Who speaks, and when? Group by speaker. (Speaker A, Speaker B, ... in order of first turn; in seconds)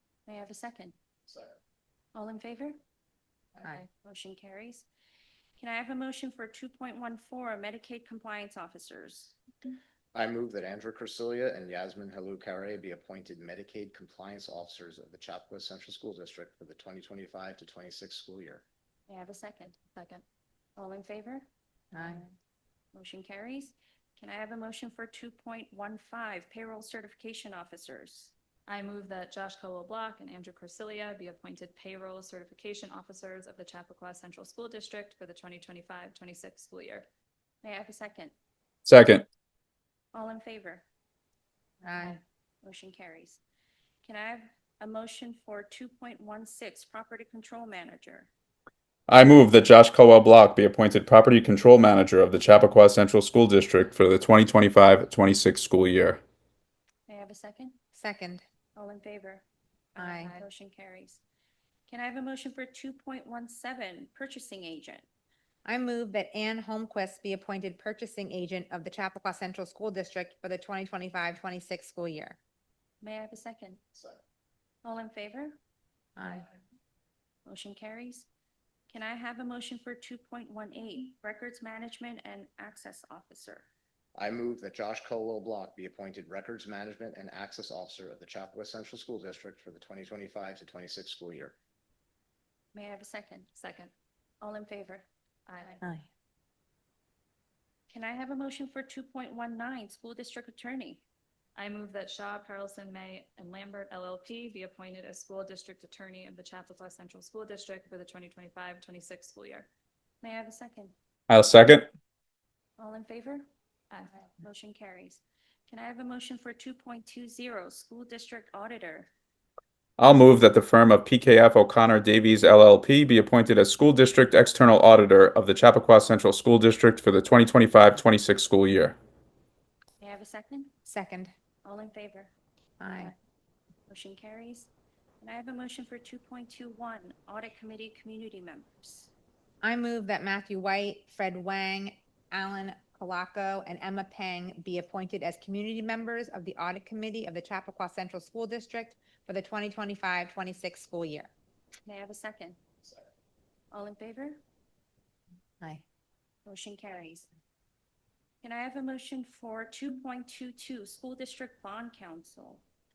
Speaker A: 0.3-0.9, 2.1-2.8, 4.0-4.8, 5.6-9.4, 19.1-19.8, 20.8-22.3, 22.9-28.3, 37.6-38.3, 40.1-40.8, 42.6-43.4, 44.0-48.3, 57.1-57.8, 58.7-59.4, 60.0-61.2, 61.9-65.0, 73.0-73.8, 74.8-75.6, 77.5-78.2, 78.9-83.7, 92.7-93.5, 94.4-95.0, 97.9-101.0, 110.2-110.9, 112.8-113.5, 114.1-119.1, 130.0-130.7, 131.6-132.3, 133.9-134.7, 135.2-139.1, 151.8-152.6, 153.7-154.4, 156.4-157.3, 158.4-162.6
Speaker B: 10.1-18.6, 84.1-91.5
Speaker C: 19.9-20.2, 28.7-37.0, 60.0-60.4, 93.5-93.9, 95.5-95.8, 101.5-109.7
Speaker D: 21.9-22.2, 41.8-42.2, 57.9-58.4, 60.0-60.4, 65.6-72.4, 76.2-76.5, 130.8-131.3, 132.8-133.1, 139.6-151.3
Speaker E: 38.8-39.2, 49.1-56.2, 111.3-111.9, 120.0-128.9